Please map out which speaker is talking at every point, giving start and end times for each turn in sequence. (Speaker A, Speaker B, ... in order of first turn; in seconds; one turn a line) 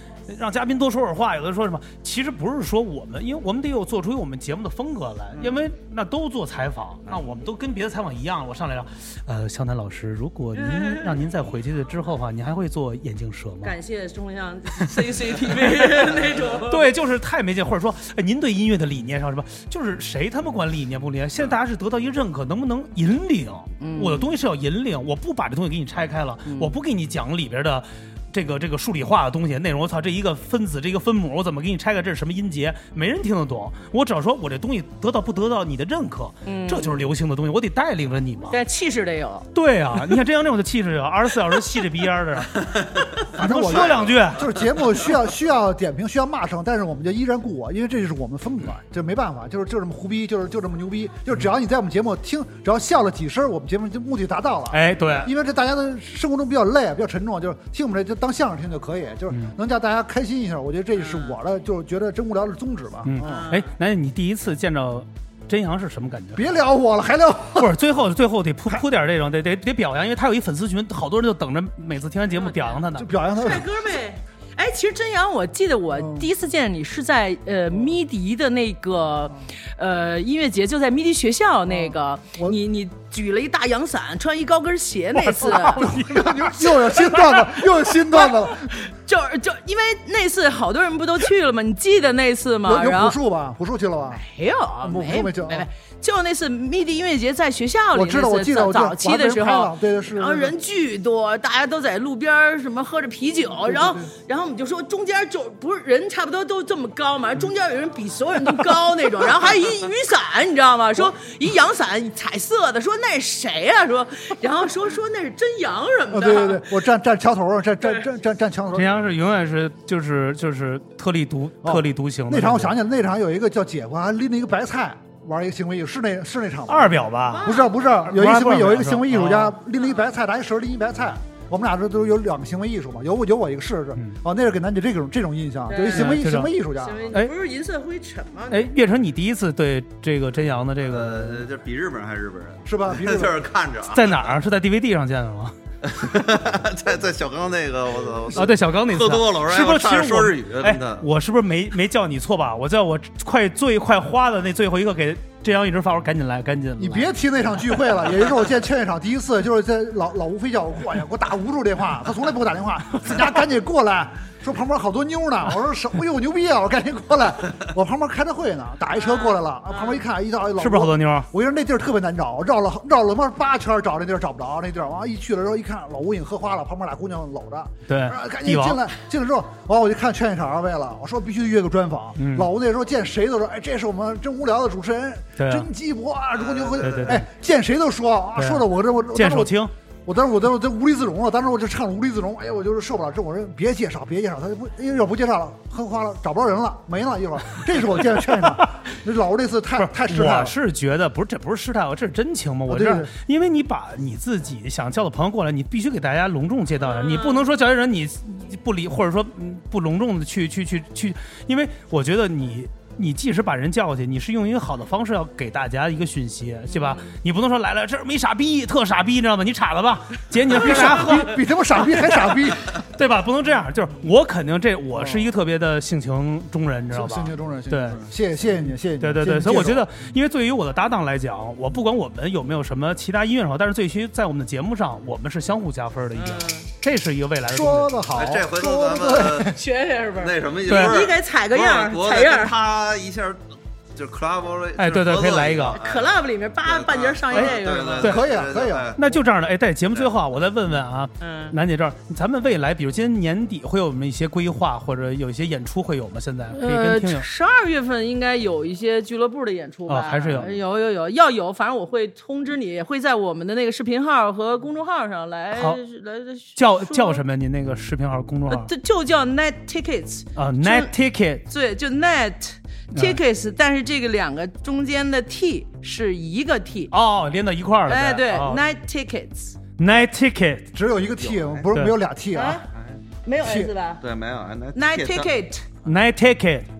Speaker A: 0.3-13.8
Speaker B: 10.5-11.2
Speaker B: 13.6-16.8
Speaker A: 15.4-16.1
Speaker A: 16.6-38.6
Speaker B: 23.8-24.3
Speaker B: 26.4-26.7
Speaker B: 36.4-37.0
Speaker B: 38.5-39.5
Speaker A: 39.5-42.6
Speaker C: 42.6-43.0
Speaker A: 43.2-44.4
Speaker D: 43.3-63.4
Speaker C: 43.7-44.5
Speaker A: 54.7-55.3
Speaker B: 60.9-61.3
Speaker A: 63.0-66.6
Speaker B: 63.2-63.7
Speaker D: 66.3-67.7
Speaker A: 67.5-73.1
Speaker B: 72.3-72.8
Speaker D: 72.9-73.7
Speaker B: 73.3-85.9
Speaker D: 75.9-76.3
Speaker D: 81.7-82.5
Speaker A: 85.2-87.4
Speaker D: 85.8-88.7
Speaker B: 86.9-87.3
Speaker B: 87.9-93.2
Speaker D: 92.6-94.2
Speaker B: 94.1-116.7
Speaker D: 94.8-95.7
Speaker D: 97.9-100.5
Speaker D: 103.6-104.1
Speaker D: 116.1-119.0
Speaker A: 118.7-122.7
Speaker D: 121.6-137.1
Speaker A: 126.7-129.6
Speaker B: 127.3-128.1
Speaker B: 129.7-130.0
Speaker B: 135.7-136.2
Speaker A: 135.9-136.5
Speaker B: 136.7-138.7
Speaker A: 138.5-141.4
Speaker C: 140.8-144.3
Speaker D: 142.6-143.3
Speaker A: 143.9-145.5
Speaker C: 145.8-151.1
Speaker A: 148.3-157.1
Speaker D: 156.8-189.5
Speaker B: 168.9-170.0
Speaker A: 170.6-171.3
Speaker A: 177.9-178.8
Speaker A: 182.2-182.5
Speaker A: 185.4-185.7
Speaker C: 186.3-187.2
Speaker A: 186.8-187.2
Speaker A: 188.4-189.7
Speaker D: 190.1-200.5
Speaker A: 199.8-228.0
Speaker D: 202.7-203.1
Speaker B: 206.8-207.4
Speaker B: 216.7-217.2
Speaker D: 220.5-222.8
Speaker D: 224.9-225.3
Speaker D: 226.9-229.9
Speaker A: 229.0-237.9
Speaker B: 236.2-236.7
Speaker D: 237.5-239.6
Speaker C: 238.1-239.6
Speaker B: 239.5-242.5
Speaker C: 240.1-243.4
Speaker A: 240.7-241.1
Speaker C: 243.9-246.1
Speaker A: 244.8-245.8
Speaker B: 245.8-248.1
Speaker C: 246.6-249.0
Speaker A: 247.3-248.2
Speaker D: 248.0-248.9
Speaker A: 249.0-257.2
Speaker B: 251.2-251.5
Speaker B: 256.5-267.2
Speaker A: 259.9-260.5
Speaker A: 265.5-265.8
Speaker A: 266.6-268.7
Speaker B: 268.5-270.9
Speaker A: 270.4-271.4
Speaker B: 271.4-276.9
Speaker A: 272.9-273.2
Speaker A: 276.9-278.6
Speaker B: 277.9-279.6
Speaker A: 279.8-280.7
Speaker D: 280.7-282.6
Speaker C: 281.2-281.6
Speaker A: 281.7-282.0
Speaker B: 282.3-282.7
Speaker C: 282.7-283.0
Speaker B: 283.2-284.0
Speaker D: 283.4-283.7
Speaker C: 284.0-285.3
Speaker B: 284.7-285.7
Speaker A: 285.8-286.7